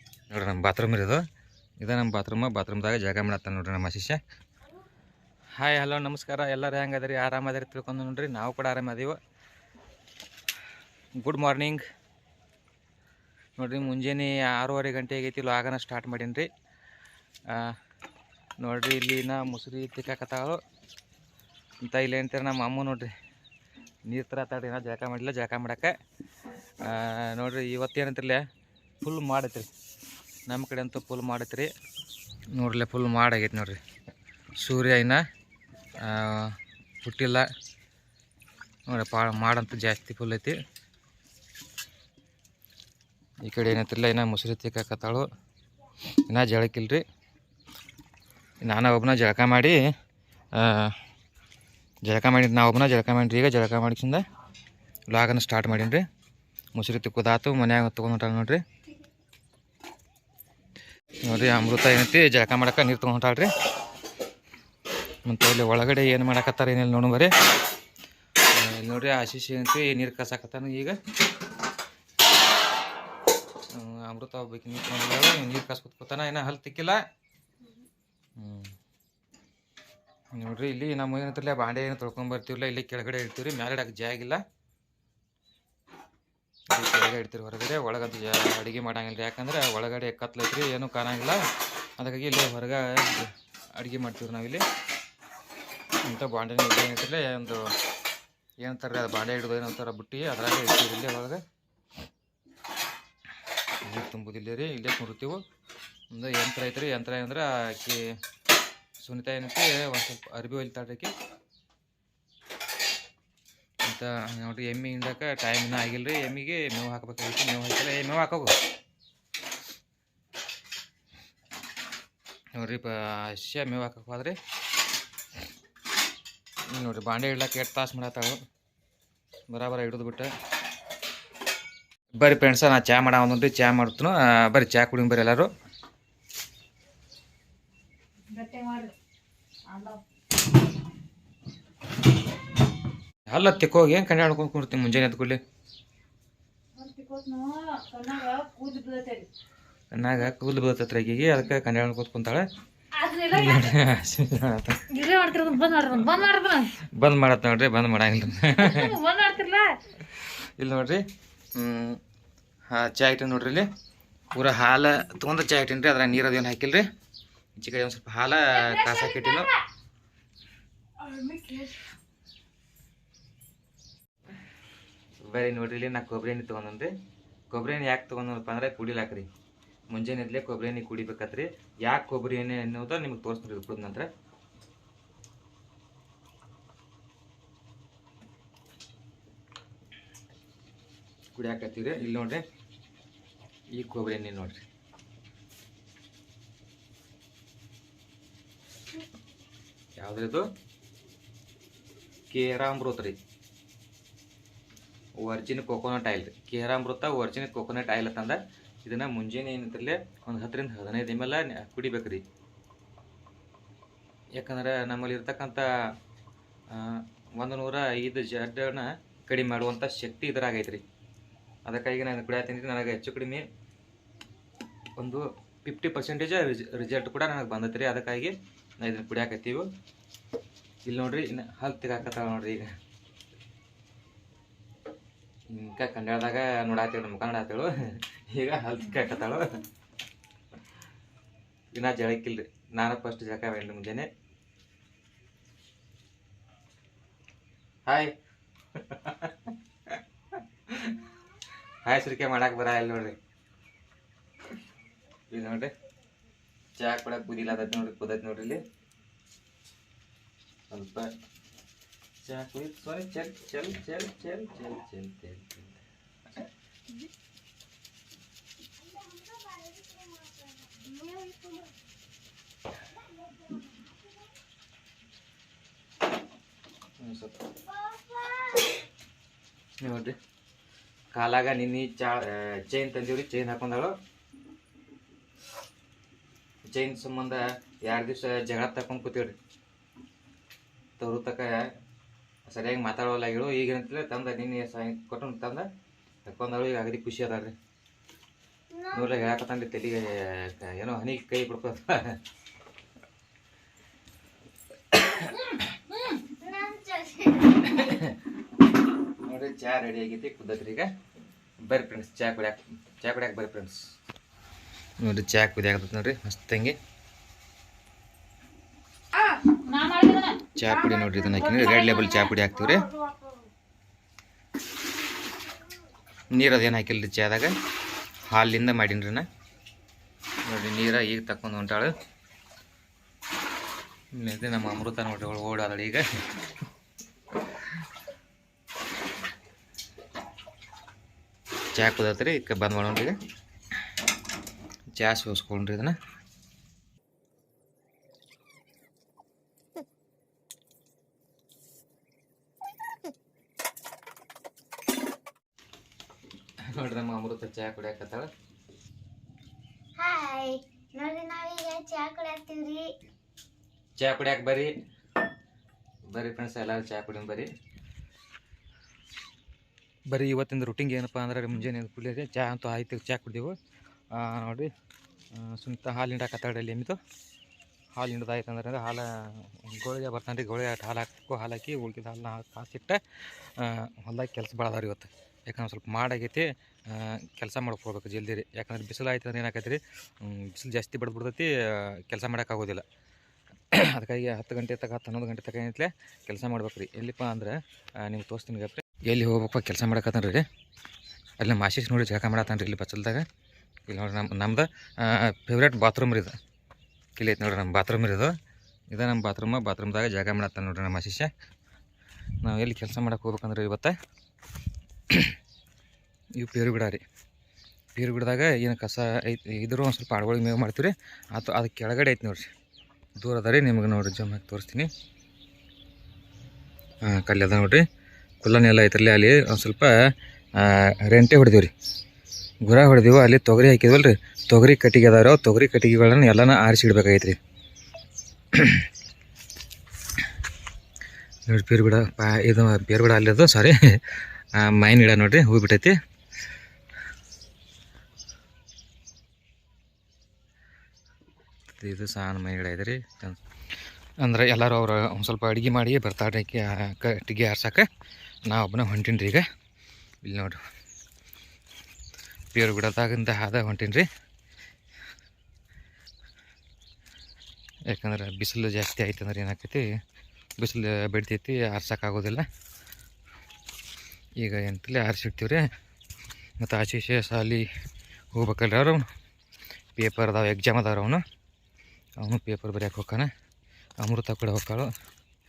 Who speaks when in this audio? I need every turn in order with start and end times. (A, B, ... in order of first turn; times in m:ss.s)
0:00.3-0:01.2 A
0:01.8-0:04.2 A
0:05.6-0:09.2 A
0:11.2-0:11.8 A
0:13.6-0:16.5 A
0:17.5-0:17.8 A
0:18.6-0:20.6 A
0:21.8-0:23.1 A
0:24.1-0:25.9 A
0:26.8-0:28.4 A
0:29.0-0:29.7 A
0:30.5-0:31.7 A
0:32.5-0:33.8 A
0:34.6-0:35.2 A
0:36.0-0:37.5 A
0:38.9-0:40.6 A
0:43.4-0:45.3 A
0:46.3-0:47.0 A
0:48.6-0:49.8 A
0:50.5-0:51.0 A
0:52.0-0:54.2 A
0:55.1-0:56.0 A
0:56.7-0:58.6 A
1:01.2-1:03.5 A
1:05.2-1:07.3 A
1:08.5-1:11.0 A
1:13.7-1:17.0 A
1:18.4-1:18.7 A
1:20.3-1:24.4 A
1:26.7-1:31.4 A
1:32.0-1:34.6 A
1:36.0-1:37.6 A
1:38.6-1:41.4 A
1:43.8-1:45.4 A
1:46.1-1:48.1 A
1:49.0-1:51.1 A
1:53.8-1:58.5 A
2:02.5-2:04.4 A
2:06.7-2:08.4 A
2:09.5-2:10.3 A
2:12.2-2:15.5 A
2:18.3-2:18.9 B
2:19.7-2:20.0 B
2:23.3-2:25.4 A
2:26.8-2:29.3 B
2:29.9-2:32.5 A
2:32.9-2:33.7 B
2:33.3-2:34.9 A
2:34.9-2:36.7 B
2:36.8-2:39.0 A
2:38.6-2:39.8 B
2:40.1-2:41.0 A
2:41.5-2:42.0 A
2:42.7-2:43.7 A
2:44.3-2:46.9 A
2:47.6-2:49.5 A
2:48.6-2:49.5 B
2:51.0-2:51.9 B
2:55.3-2:56.9 A
2:57.5-2:59.3 A
2:59.9-3:04.1 A
3:11.3-3:12.4 A
3:13.7-3:14.6 A
3:20.0-3:20.5 A
3:22.3-3:23.2 A
3:25.2-3:32.2 A
3:34.4-3:35.9 A
3:36.7-3:40.8 A
3:41.6-3:43.4 A
3:45.0-3:49.7 A
3:50.8-3:52.8 A
3:55.5-3:59.6 A
4:01.7-4:04.1 A
4:07.9-4:08.1 A
4:08.7-4:10.0 A
4:10.7-4:11.0 A
4:11.8-4:13.2 A
4:15.3-4:15.7 A
4:16.8-4:18.6 A
4:20.7-4:21.1 A
4:22.2-4:25.8 A
4:29.2-4:30.3 C
4:37.0-4:37.4 A
4:37.9-4:38.7 C
4:39.8-4:40.2 A
4:41.1-4:43.9 A
4:46.7-4:49.4 A
4:51.0-4:51.7 A
4:52.5-4:55.7 A
4:56.2-4:57.5 A
4:58.7-4:59.2 C
4:58.9-5:02.2 A
5:05.0-5:05.5 A
5:06.0-5:07.7 C
5:07.6-5:08.2 A
5:09.2-5:10.9 A
5:11.6-5:13.8 A
5:15.0-5:16.8 A
5:19.3-5:23.4 B
5:20.6-5:22.9 A
5:26.3-5:27.5 A
5:28.2-5:29.3 A
5:30.4-5:31.9 A
5:34.1-5:36.1 A
5:41.7-5:43.2 A
5:45.0-5:46.0 A
5:56.6-5:58.3 A
6:00.0-6:02.9 C
6:04.0-6:04.7 A
6:06.1-6:07.5 A
6:10.1-6:13.6 A
6:14.1-6:14.7 A
6:15.3-6:17.0 A
6:18.0-6:32.8 A
6:33.7-6:40.4 A
6:41.4-6:43.2 A
6:43.9-6:46.4 A
6:47.2-6:48.3 A
6:48.9-6:51.3 A
6:52.4-6:54.0 A
6:55.1-6:55.4 A
6:56.4-6:57.0 A
6:57.9-7:02.5 A
7:03.2-7:04.9 A
7:07.0-7:07.8 A
7:08.4-7:09.9 A
7:10.6-7:11.7 A
7:12.6-7:17.4 A
7:18.5-7:18.8 A
7:21.5-7:26.0 A
7:31.7-7:33.4 A
7:34.2-7:37.9 A
7:38.5-7:39.4 A
7:40.2-7:40.6 A
7:42.5-7:44.1 A
7:47.9-7:49.8 A
7:50.6-7:52.4 A
7:54.4-7:55.6 A
7:56.6-7:57.7 A
7:58.3-7:59.0 A
8:00.0-8:01.2 A
8:02.2-8:03.3 A
8:04.0-8:04.9 A